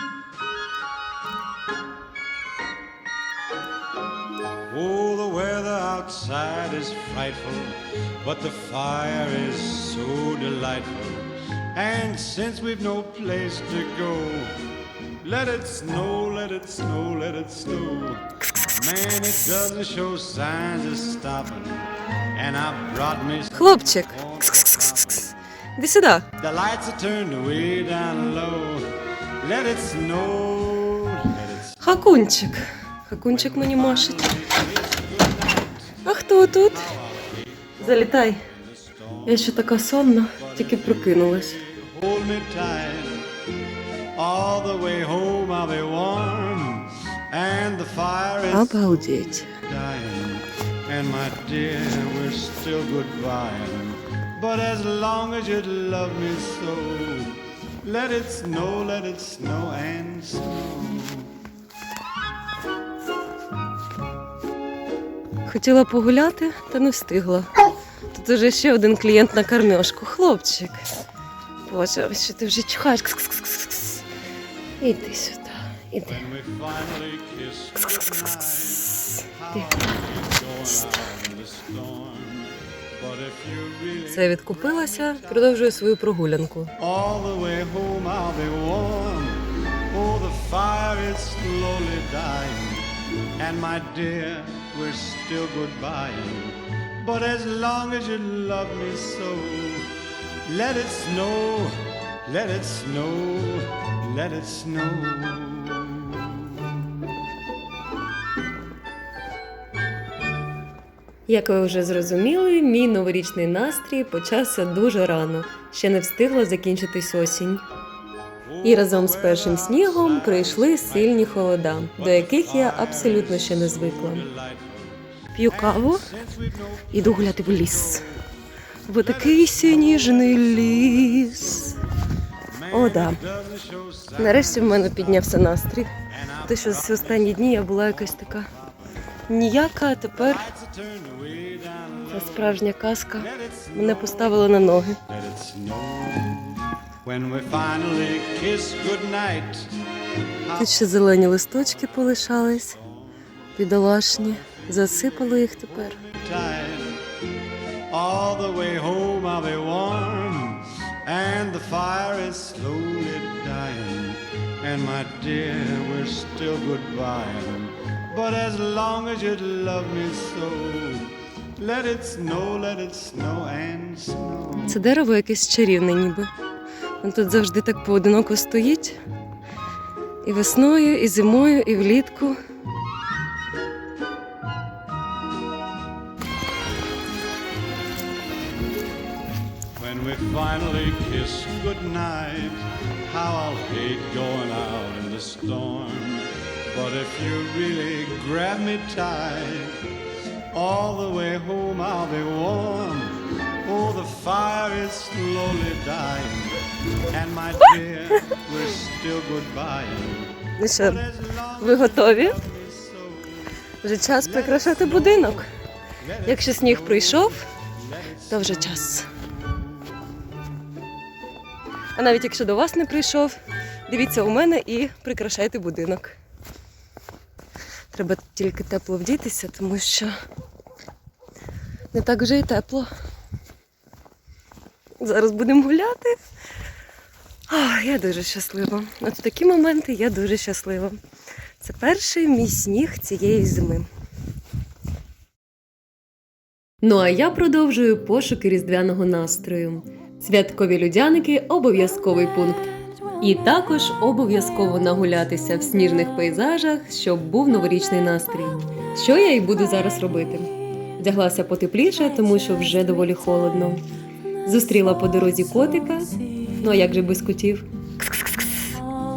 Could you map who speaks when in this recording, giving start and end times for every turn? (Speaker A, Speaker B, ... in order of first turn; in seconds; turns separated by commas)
Speaker A: 4.7-14.6, Speaker A: 15.2-25.3, Speaker B: 23.5-26.3, Speaker A: 26.4-31.9, Speaker B: 31.8-34.2, Speaker A: 33.2-36.0, Speaker B: 36.0-36.9, Speaker A: 36.6-43.3, Speaker B: 37.8-38.4, Speaker B: 39.3-41.6, Speaker A: 44.1-61.3, Speaker B: 48.5-49.6, Speaker B: 65.5-67.5, Speaker B: 68.1-70.8, Speaker B: 71.7-74.0, Speaker B: 74.8-76.2, Speaker A: 76.0-85.7, Speaker B: 77.8-79.7, Speaker B: 84.1-86.7, Speaker A: 86.8-99.9, Speaker A: 100.5-106.7, Speaker B: 111.3-117.7, Speaker A: 118.5-128.3, Speaker B: 118.6-124.3, Speaker B: 125.3-126.1, Speaker B: 126.9-128.1, Speaker B: 128.9-131.8, Speaker A: 128.9-131.8, Speaker A: 132.4-135.3, Speaker B: 132.7-133.2, Speaker B: 134.2-135.9, Speaker A: 136.0-138.9, Speaker B: 136.4-138.5, Speaker B: 139.3-140.5, Speaker A: 140.2-144.4, Speaker B: 142.1-145.0, Speaker A: 145.1-149.8, Speaker A: 150.4-150.9, Speaker B: 150.6-152.8, Speaker A: 151.8-157.0, Speaker B: 153.6-156.0, Speaker A: 157.9-174.8, Speaker B: 174.7-176.3, Speaker B: 177.0-179.0, Speaker B: 180.2-182.4, Speaker A: 189.8-199.8, Speaker A: 200.5-213.5, Speaker B: 210.6-211.0, Speaker B: 211.6-212.4, Speaker B: 213.8-215.5, Speaker A: 214.2-215.5, Speaker A: 216.0-219.7, Speaker B: 216.2-217.4, Speaker B: 218.3-219.1, Speaker B: 222.0-223.4, Speaker B: 223.9-226.2, Speaker B: 227.9-230.2, Speaker B: 231.9-232.9, Speaker B: 235.0-236.2, Speaker B: 237.5-241.0, Speaker B: 241.6-243.9, Speaker B: 246.8-252.7, Speaker B: 253.2-263.8, Speaker B: 264.4-268.8